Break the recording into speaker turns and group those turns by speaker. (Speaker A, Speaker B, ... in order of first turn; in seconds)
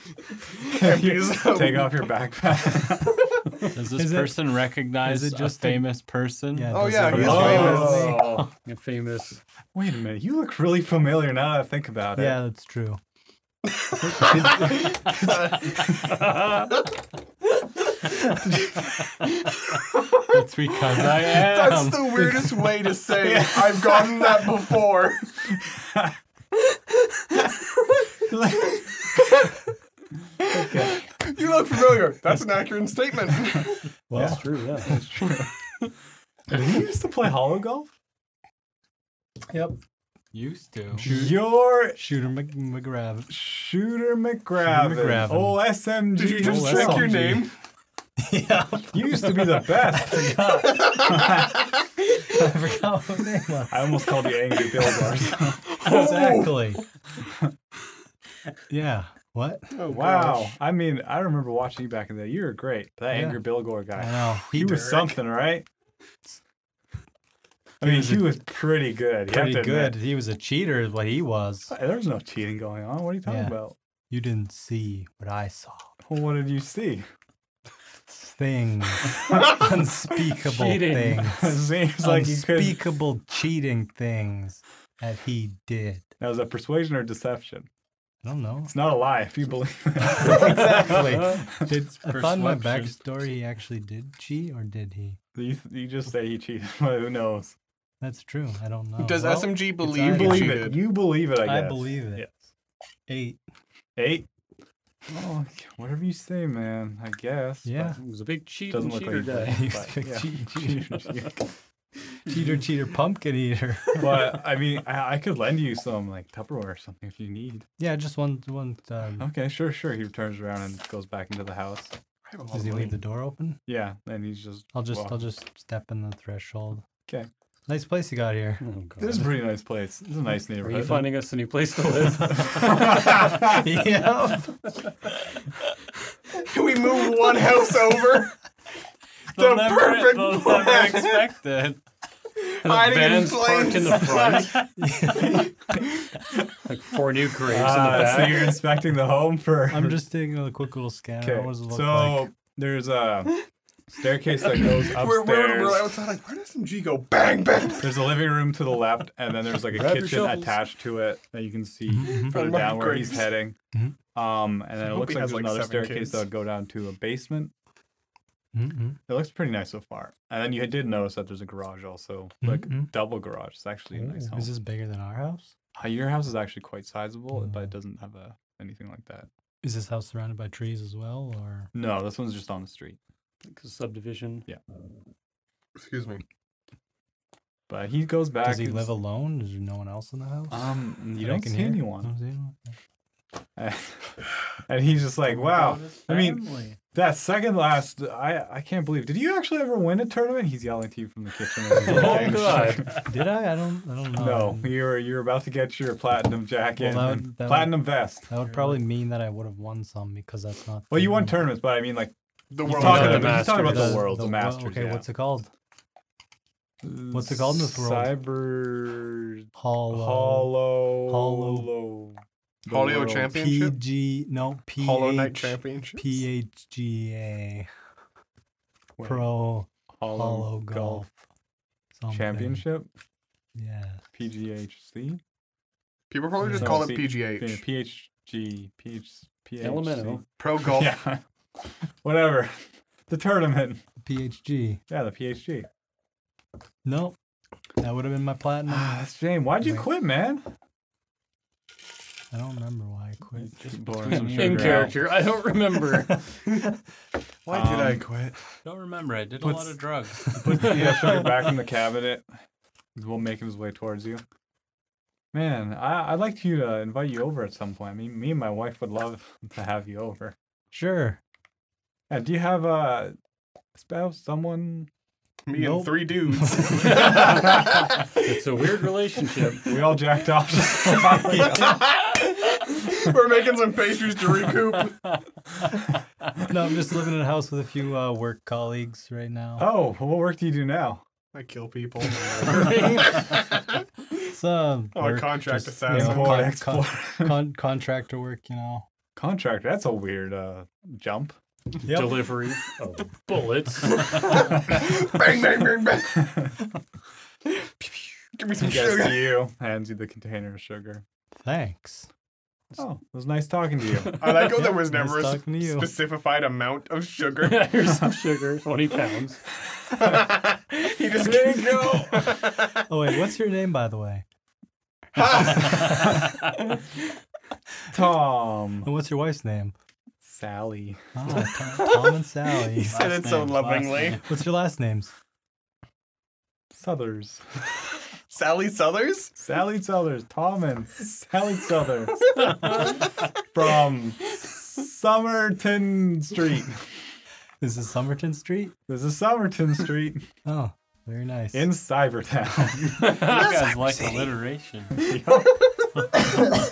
Speaker A: 0.6-2.1, 6.7-8.1, 14.1-16.6, 21.0-25.4, 28.0-28.9, 30.5-33.9, 46.1-47.5, 55.6-56.7, 59.7-60.5, 99.0-100.8, 122.2-123.0, 136.3-138.4, 139.3-141.3, 142.4-145.3, 154.7-158.0, 162.3-163.3, 164.8-166.2, 185.8-186.2, 212.5-213.9, 222.7-223.8, 224.8-226.2, 236.1-237.6, 240.4-241.0, 257.4-258.6, 275.4-277.9, 281.1-285.1, 291.3-293.6, 294.9-296.5, 304.1-306.4, 307.5-309.4, 314.1-317.7, 319.9-322.8, 325.1-326.1, 331.7-332.1, 332.9-334.2, 338.3-339.3, 342.5-343.0, 353.3-354.3
Speaker B: 0.7-3.4, 7.1-8.5, 9.7-12.4, 15.8-16.3, 23.2-24.5, 25.4-26.1, 28.2-28.8, 30.5-31.0, 34.1-35.5, 36.5-37.9, 41.0-42.0, 43.3-47.5, 48.9-51.5, 53.7-55.6, 59.8-65.7, 67.8-70.0, 71.7-73.8, 76.0-77.1, 81.3-82.8, 86.2-87.7, 88.7-91.0, 95.3-97.6, 100.0-102.3, 104.0-104.3, 105.1-108.0, 108.7-111.5, 114.0-117.7, 119.2-122.0, 123.7-125.2, 129.0-131.1, 132.3-133.6, 147.5-150.0, 151.2-155.9, 157.8-163.6, 164.1-167.5, 169.1-174.5, 175.7-179.3, 181.7-183.0, 187.7-188.9, 190.5-192.1, 193.6-203.1, 204.1-208.3, 210.9-215.0, 216.8-223.3, 229.0-229.3, 230.0-231.1, 232.1-232.9, 234.1-235.2, 236.6-243.8, 244.9-245.7, 248.7-250.5, 253.3-255.0, 257.5-258.1, 259.4-259.8, 260.3-262.3, 262.9-264.2, 265.3-270.4, 272.1-273.1, 273.8-274.9, 279.6-281.8, 289.6-291.0, 295.9-297.4, 299.1-301.4, 306.2-306.5, 308.5-311.0, 312.8-314.1, 321.2-322.2, 327.9-328.9, 330.2-331.0, 336.7-337.4, 339.4-342.8, 343.5-346.8, 348.9-350.3, 351.5-353.1, 355.0-355.7
Speaker C: 3.7-7.7, 20.9-22.0, 40.3-41.1, 91.5-93.0, 139.3-141.8, 159.8-160.5, 195.3-196.8, 253.8-254.9, 258.6-260.7, 332.9-334.2, 353.2-355.1
Speaker D: 3.9-6.0, 6.5-8.5, 12.2-13.0, 14.0-15.3, 20.3-22.8, 34.1-34.7, 39.5-39.8, 40.9-43.3, 44.6-45.7, 46.2-47.4, 48.2-51.5, 52.2-54.1, 55.8-56.8, 58.7-59.8, 63.1-65.1, 67.8-68.3, 69.3-71.7, 73.2-73.5, 74.1-75.9, 78.1-86.1, 88.2-88.7, 90.1-91.5, 92.0-95.2, 98.0-100.8, 101.3-102.3, 103.1-103.4, 107.7-108.0, 109.5-111.0, 112.2-114.3, 117.8-119.3, 122.5-123.6, 124.7-126.8, 127.7-128.7, 133.4-134.6, 144.8-145.5, 149.7-152.3, 161.9-162.3, 168.5-169.0, 172.4-172.9, 173.9-175.5, 177.3-177.7, 179.6-181.7, 188.4-192.7, 201.8-204.7, 206.8-211.5, 212.7-215.5, 217.1-218.1, 219.6-221.7, 223.3-227.7, 229.0-231.1, 231.9-232.7, 233.5-234.1, 236.4-236.9, 244.0-244.8, 246.8-247.2, 247.8-249.0, 252.3-253.5, 270.7-271.2, 275.5-277.1, 286.5-289.7, 294.3-298.9, 301.8-302.3, 311.3-312.1, 314.5-316.0, 322.9-324.2, 328.8-329.7, 331.1-333.1, 334.2-335.1, 347.6-348.8, 350.4-351.7
Speaker E: 7.5-9.4, 34.1-35.0, 80.4-81.3, 108.0-109.7, 128.6-129.3, 130.6-133.2, 142.6-144.7, 146.6-148.6, 183.4-184.5, 201.8-203.0, 212.7-214.0, 239.6-240.2, 254.1-256.4, 276.9-279.7, 301.8-304.4, 317.4-319.4, 353.0-353.5